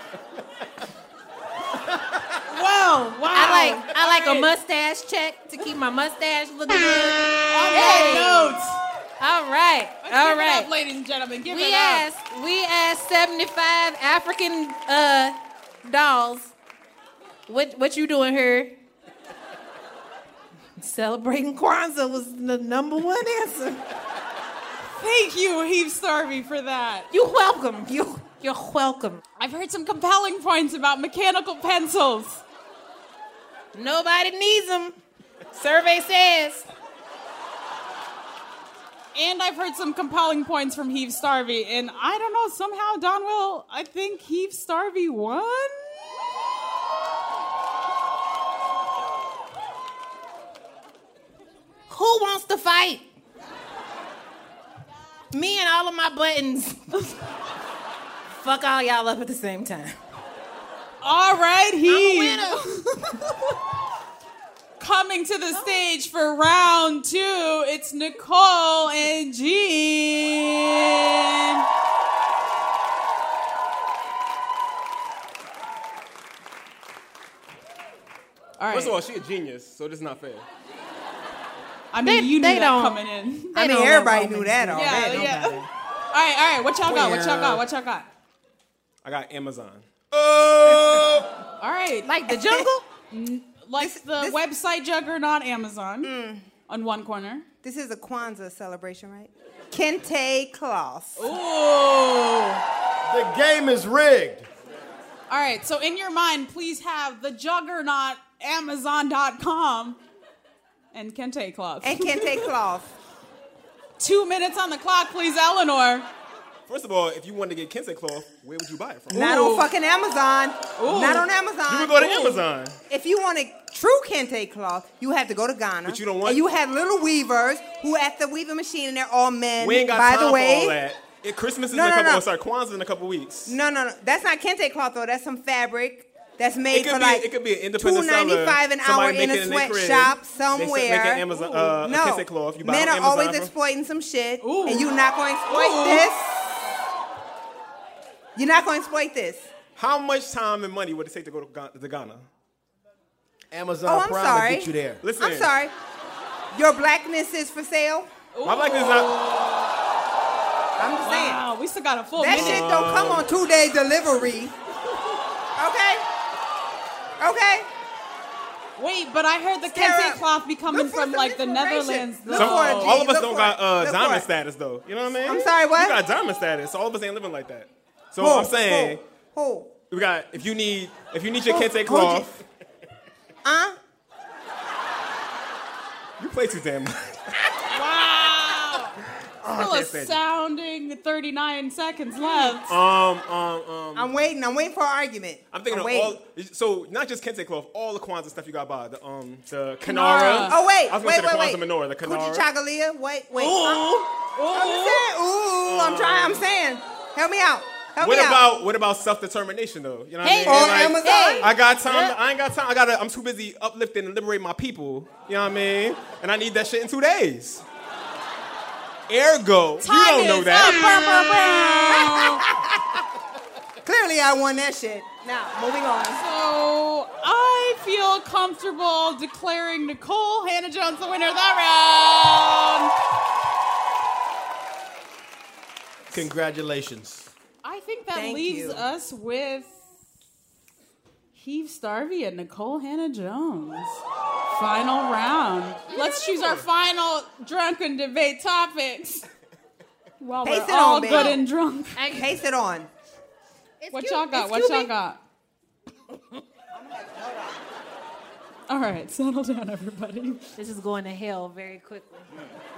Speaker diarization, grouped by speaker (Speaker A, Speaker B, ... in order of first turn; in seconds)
Speaker A: 2.5-4.5, 7.5-8.8, 10.0-12.1, 24.9-27.1, 29.4-32.4, 39.1-46.1, 61.0-63.4, 64.8-71.7, 78.6-79.0, 81.9-83.5, 84.8-85.6, 86.1-88.1, 91.6-92.1, 93.1-96.1, 96.7-97.5, 101.2-102.6, 105.3-110.0, 110.9-112.5, 114.0-116.1, 119.1-119.7, 120.8-121.3, 122.0-122.4, 144.4-144.9, 145.5-146.1, 158.3-159.7, 161.0-162.7, 168.8-173.0, 187.7-188.9, 189.5-192.8, 199.8-200.6, 203.3-205.1, 219.8-222.4, 226.1-232.9, 237.6-239.8, 241.3-249.3, 250.2-252.2, 253.9-255.2, 258.7-260.4
Speaker B: 3.3-8.6, 9.2-10.7, 11.5-16.5, 17.5-18.8, 20.8-23.8, 27.1-29.2, 33.7-35.0, 35.5-36.7, 51.9-53.1, 55.3-56.9, 58.3-60.0, 61.9-62.6, 82.0-83.0, 83.5-85.7, 92.0-92.9, 192.2-192.6, 210.2-212.2, 245.9-246.7, 251.1-251.4, 251.9-252.3, 253.8-254.9, 256.1-256.4, 260.6-262.3
Speaker C: 78.7-80.5, 89.0-91.3, 116.7-119.4, 121.7-122.8, 125.8-126.5, 129.6-133.6, 136.7-143.5, 149.8-152.2, 155.0-155.5, 158.4-159.2, 162.3-163.3, 172.3-179.0, 179.9-182.4, 186.2-187.2, 189.4-190.2, 192.7-194.1, 195.5-202.5, 205.6-206.4, 208.0-217.6, 219.1-220.9
Speaker D: 83.5-85.6, 93.8-94.4, 96.0-96.5, 97.6-101.3, 111.8-112.9, 119.1-122.2, 122.9-130.8, 131.7-132.2, 133.5-137.3, 137.8-146.4, 148.4-149.5, 153.8-155.7, 156.5-158.1, 160.8-161.4, 162.2-164.6, 165.6-166.1, 167.2-167.7, 169.7-174.3, 175.2-176.0, 178.2-179.7, 181.5-182.3, 183.4-183.8, 193.9-196.2, 200.5-203.9, 204.5-208.4, 210.4-211.6, 221.9-223.0, 223.8-226.2, 238.1-238.8, 250.4-251.4, 252.1-252.9, 256.7-257.7
Speaker E: 86.9-87.5, 103.1-104.5, 153.5-155.0, 236.1-237.3